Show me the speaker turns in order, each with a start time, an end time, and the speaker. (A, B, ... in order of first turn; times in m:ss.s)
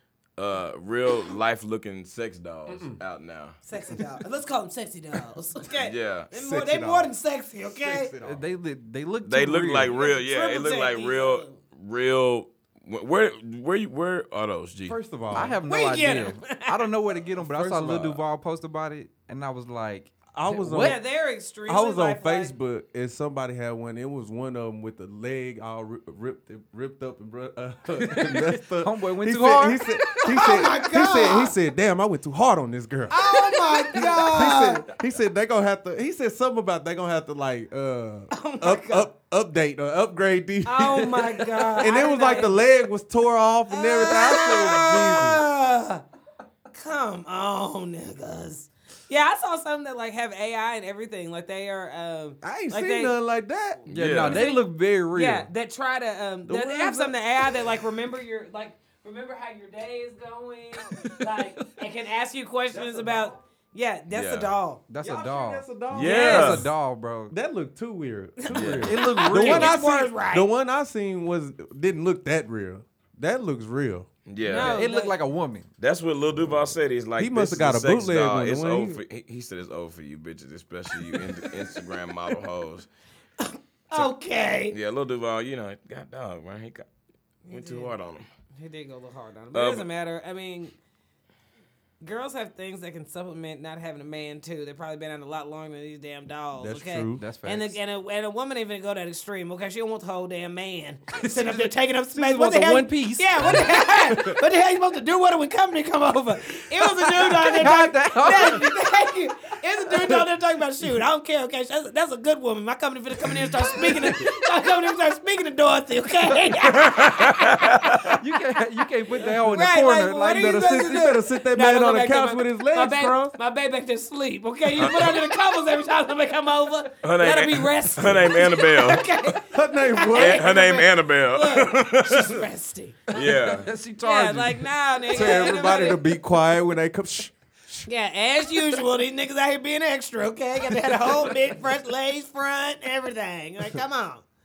0:00.4-0:03.6 A
0:02.7-0:03.0 B
0:03.6-0:08.1 C
0:05.8-0:06.3 A
0:06.3-0:07.1 B
0:07.7-0:08.5 B
0:08.2-0:09.9 D
0:09.2-0:15.0 A
0:09.9-0:11.6 C
0:14.9-0:15.6 B
0:15.3-0:21.0 D
0:15.7-0:16.9 C
0:17.4-0:18.1 B
0:17.7-0:18.1 A
0:20.3-0:21.0 B
0:20.8-0:22.5 C
0:21.6-0:45.4 B
0:28.0-0:30.4 D
0:30.2-0:31.5 C
0:33.1-0:34.9 C
0:38.3-0:39.1 C
0:40.6-0:42.6 C
0:43.7-0:46.0 C
0:44.1-0:45.0 D
0:46.7-0:53.1 C
0:52.4-0:53.8 B
0:53.9-0:54.4 A
0:53.9-0:55.5 D
0:54.2-1:04.8 C
0:56.4-0:57.7 B
1:01.0-1:01.3 D
1:02.7-1:03.3 B
1:04.1-1:04.5 A
1:04.9-1:07.3 D
1:05.0-1:06.7 B
1:05.9-1:06.7 A
1:07.3-1:14.1 B
1:08.4-1:10.5 C
1:08.5-1:08.9 A
1:08.8-1:09.8 D
1:14.3-1:14.8 A
1:14.4-1:15.2 C
1:14.5-1:15.7 D
1:15.8-1:22.9 A
1:16.3-1:19.0 B
1:21.0-1:21.8 C
1:23.4-1:24.8 C
1:24.7-1:26.8 A
1:27.4-1:27.9 C
1:27.5-1:28.3 A
1:28.6-1:30.7 C
1:29.5-1:29.9 A
1:32.0-1:58.1 C
1:36.6-1:37.2 B
1:37.2-1:37.8 D
1:41.2-1:44.0 D
1:47.2-1:48.7 D
1:53.3-1:54.2 B
1:56.8-1:58.1 A
1:58.1-2:01.0 D
1:59.2-2:13.2 C
2:00.3-2:03.3 B
2:04.8-2:05.2 A
2:07.0-2:09.0 A
2:09.3-2:10.6 B
2:10.1-2:12.4 A
2:13.1-2:15.8 D
2:13.1-2:13.7 A
2:14.0-2:16.2 C
2:15.1-2:17.9 B
2:17.9-2:24.2 C